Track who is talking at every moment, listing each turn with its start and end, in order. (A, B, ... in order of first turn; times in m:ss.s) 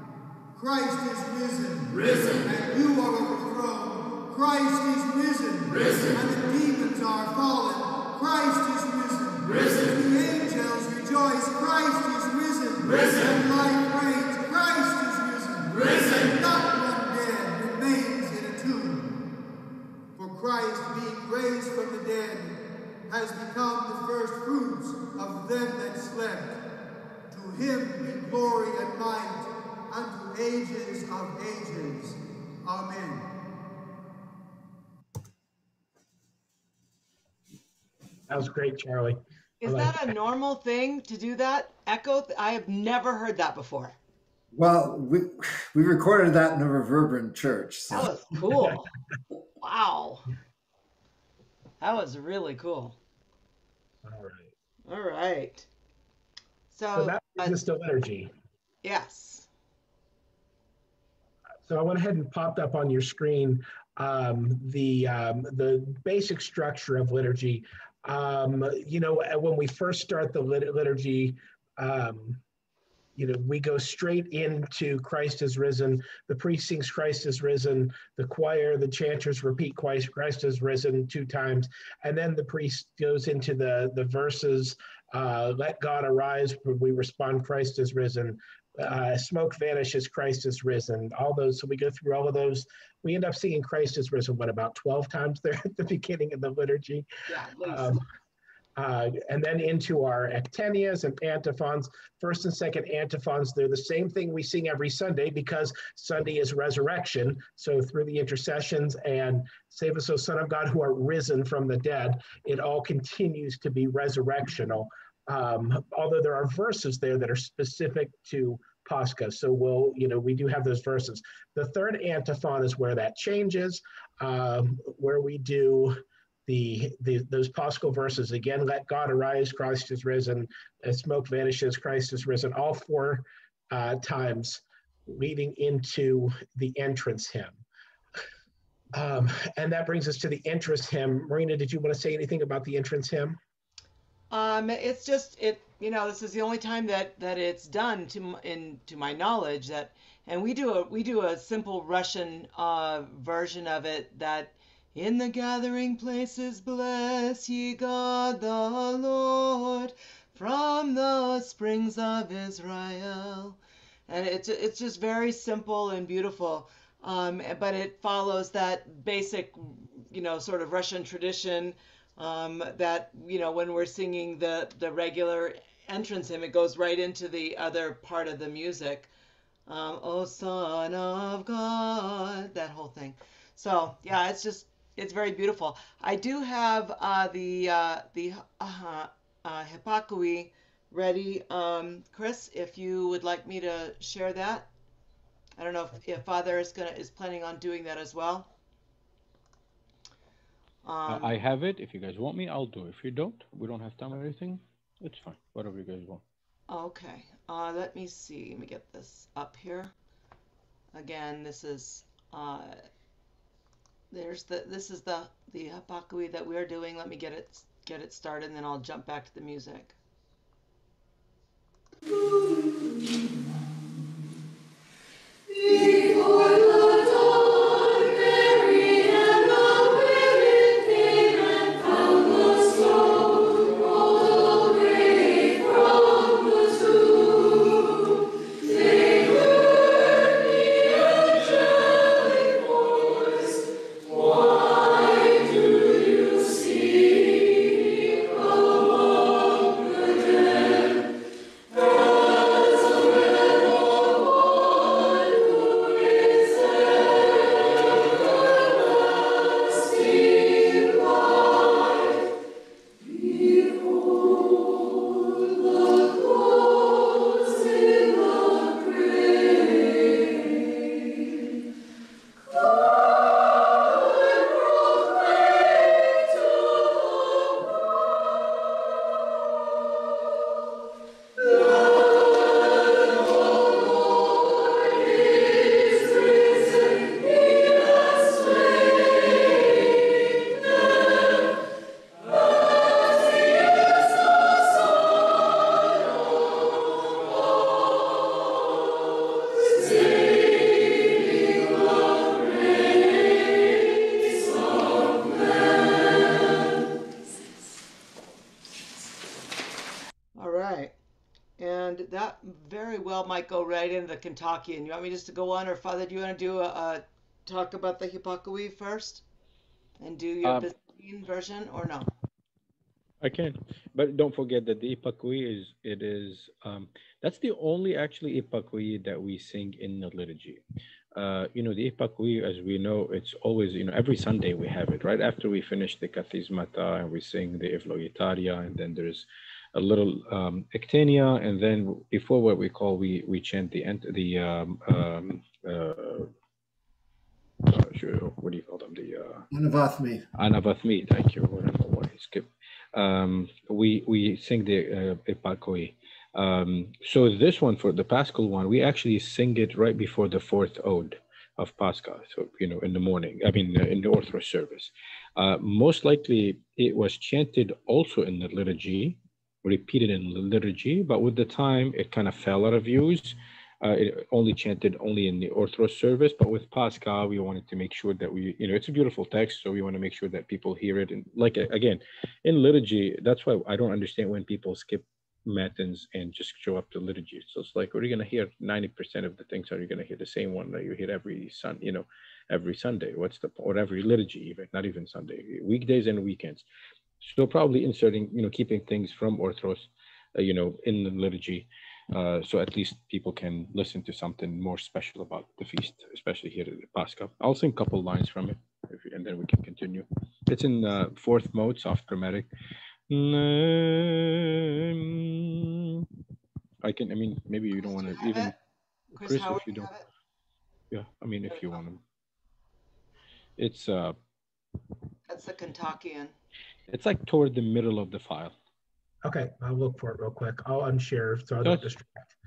0:00.5-0:19.2 A
0:20.2-0:26.6 A
0:27.3-0:33.3 A
0:38.3-0:40.1 B
0:39.6-0:44.0 C
0:44.5-0:48.1 D
0:47.9-0:48.8 C
0:49.6-0:50.3 C
0:51.8-0:53.0 C
0:54.0-0:54.5 B
0:54.9-0:55.7 C
0:56.7-0:57.6 C
0:56.9-0:58.3 B
0:58.8-0:59.5 C
1:01.7-1:12.4 B
1:13.2-1:37.1 B
1:37.3-1:38.0 C
1:37.6-1:38.0 B
1:38.8-2:17.6 B
2:18.9-2:23.4 B
2:24.3-2:59.1 C
2:59.7-3:14.7 C
3:15.6-3:18.5 C
3:20.8-3:21.3 C
3:21.1-3:26.2 E
3:26.7-3:29.9 C
3:30.9-3:32.8 C
3:34.1-3:39.9 C
5:10.4-5:10.9 C
5:11.6-5:19.2 C
5:20.0-5:22.1 C
5:20.4-5:20.7 E
5:23.2-5:30.6 E
5:31.1-5:46.3 E
5:47.6-5:49.5 E
5:49.5-5:50.2 D
5:50.4-6:36.6 E
6:37.2-6:52.5 E
6:53.1-6:56.1 E
6:56.8-6:58.5 E
6:57.7-6:58.5 C
6:59.1-6:59.9 E
6:59.1-7:00.0 C
7:00.9-7:02.0 E
7:01.5-7:01.8 C
7:03.6-7:04.2 E
7:05.3-7:06.3 C
7:06.9-7:08.5 E
7:09.2-7:12.3 B
7:11.6-7:11.9 E